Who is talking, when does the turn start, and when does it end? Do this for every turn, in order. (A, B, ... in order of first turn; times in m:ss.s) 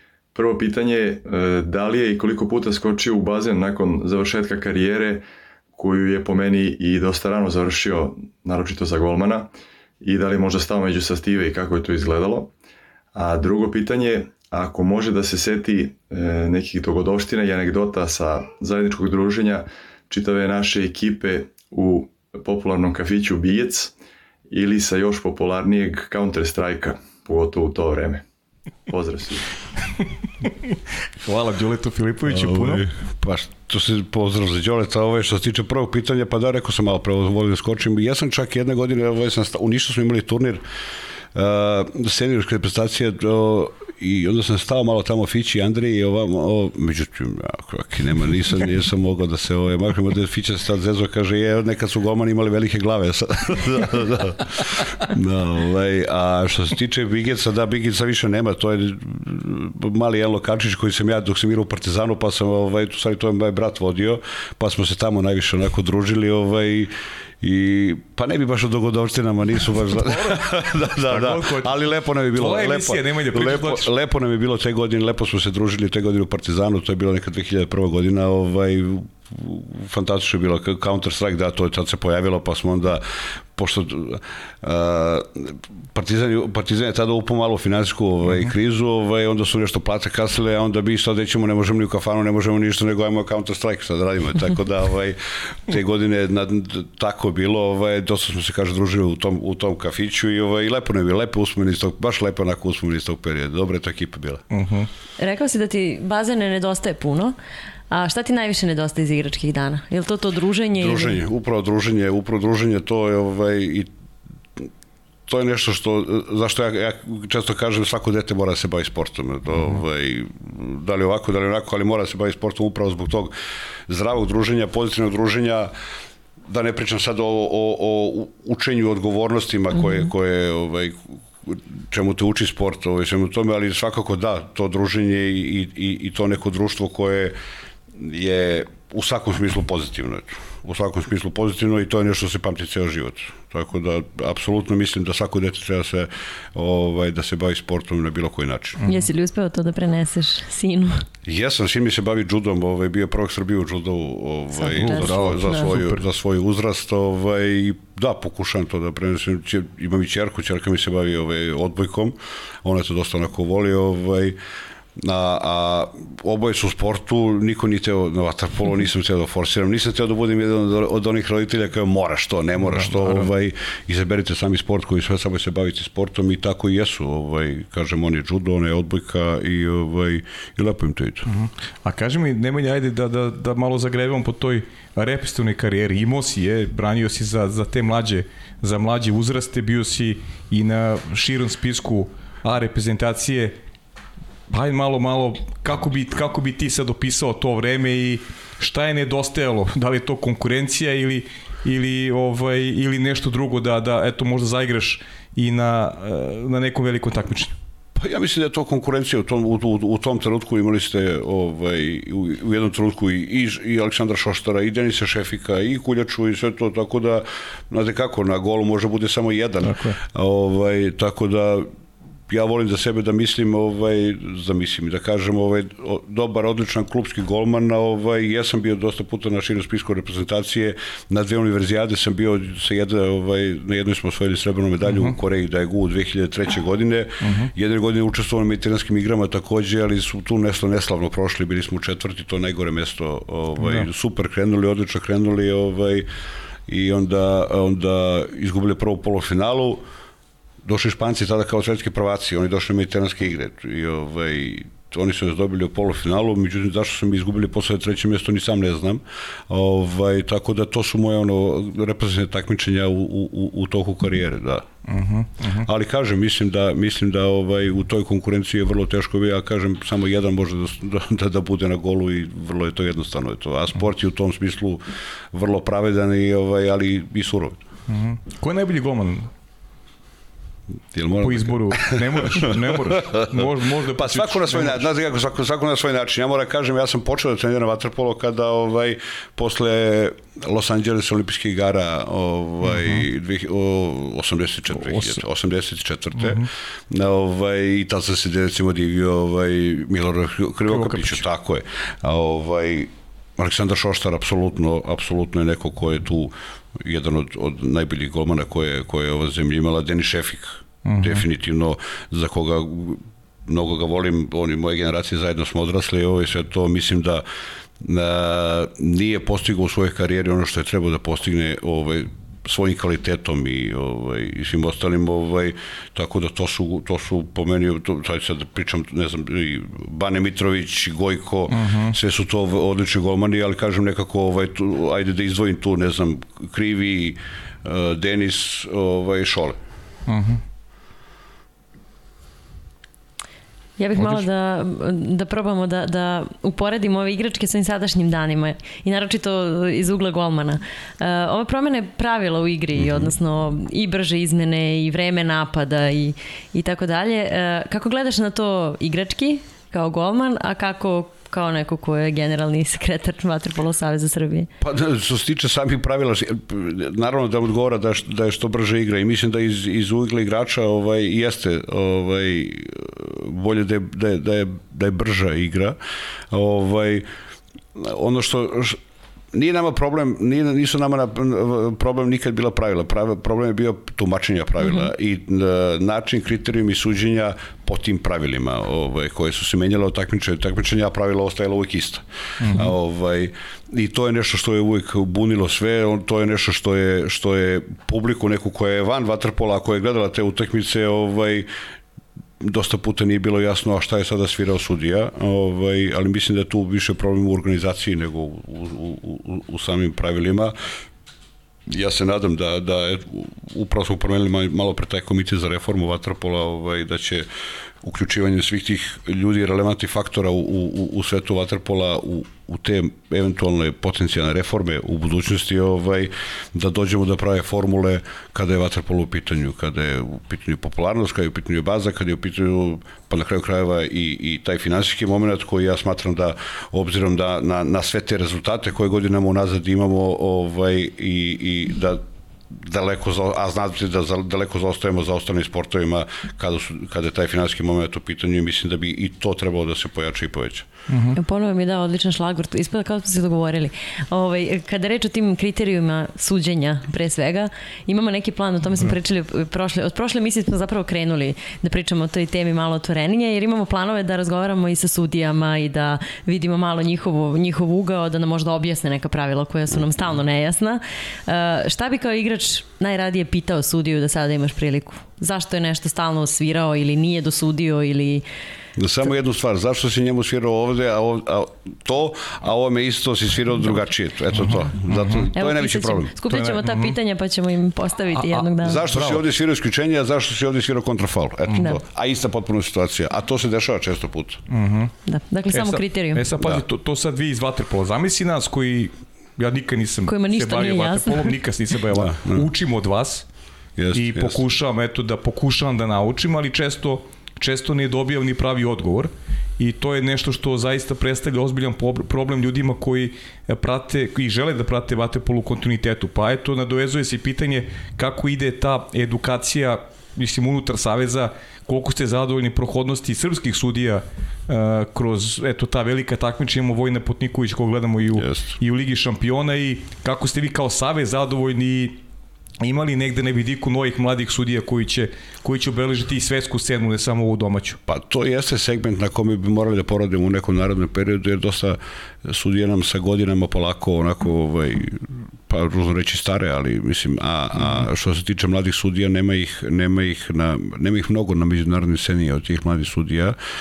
0:00.3-0:05.2 A
0:05.7-0:09.5 A
0:10.0-0:12.5 A
0:13.1-0:23.9 A
0:24.5-0:28.2 A
0:28.9-0:29.6 A
0:30.4-0:32.8 B
0:32.3-0:40.6 C
0:41.3-1:44.4 C
1:09.9-1:11.8 B
1:12.3-1:13.9 B
1:44.5-1:44.9 B
1:45.2-1:47.4 D
1:47.9-1:51.2 D
1:50.8-1:53.9 C
1:55.3-2:03.3 C
2:03.9-2:05.7 C
2:06.5-2:17.4 C
2:17.9-2:28.8 C
2:28.8-2:29.1 B
2:28.8-2:31.0 D
2:31.2-2:44.4 C
2:34.6-2:35.6 D
2:34.8-2:36.0 B
2:45.0-3:01.3 C
2:52.6-2:53.3 B
3:01.3-3:13.6 B
3:14.5-3:27.6 B
3:28.0-3:41.7 C
3:39.6-3:40.0 B
3:42.3-4:06.1 C
3:54.8-3:55.2 B
3:57.2-3:57.5 B
4:03.6-4:03.9 B
4:06.7-4:09.8 C
4:10.6-4:24.7 C
4:24.9-4:25.7 B
4:25.6-4:37.6 C
4:37.9-4:39.3 B
4:40.9-5:17.2 C
4:41.2-4:44.9 B
4:52.6-4:53.0 B
4:54.8-4:55.2 B
4:56.2-4:56.5 B
5:00.7-5:01.2 B
5:10.8-5:11.2 B
5:17.8-5:39.6 C
5:31.5-5:32.0 B
5:40.1-5:40.4 B
5:43.8-6:04.5 D
5:44.0-5:44.2 B
6:04.6-6:15.8 C
6:16.3-6:17.1 C
6:17.8-6:18.8 C
6:19.3-6:41.5 C
6:32.4-6:32.7 B
6:42.4-6:50.5 C
6:51.7-6:57.3 C
6:57.8-7:30.7 C
7:30.9-7:31.2 B
7:31.2-7:58.2 D
7:58.8-8:06.1 C
8:04.4-8:05.3 B
8:05.3-8:08.8 D
8:06.3-8:07.0 B
8:08.3-8:09.2 B
8:08.6-8:14.4 C
8:14.5-8:14.9 B
8:15.1-8:16.2 D
8:15.5-8:23.3 B
8:20.1-8:21.3 D
8:21.9-8:22.5 C
8:23.8-8:24.4 C
8:23.9-8:52.0 B
8:48.2-8:48.6 C
8:52.6-8:57.8 B
8:57.9-9:13.4 C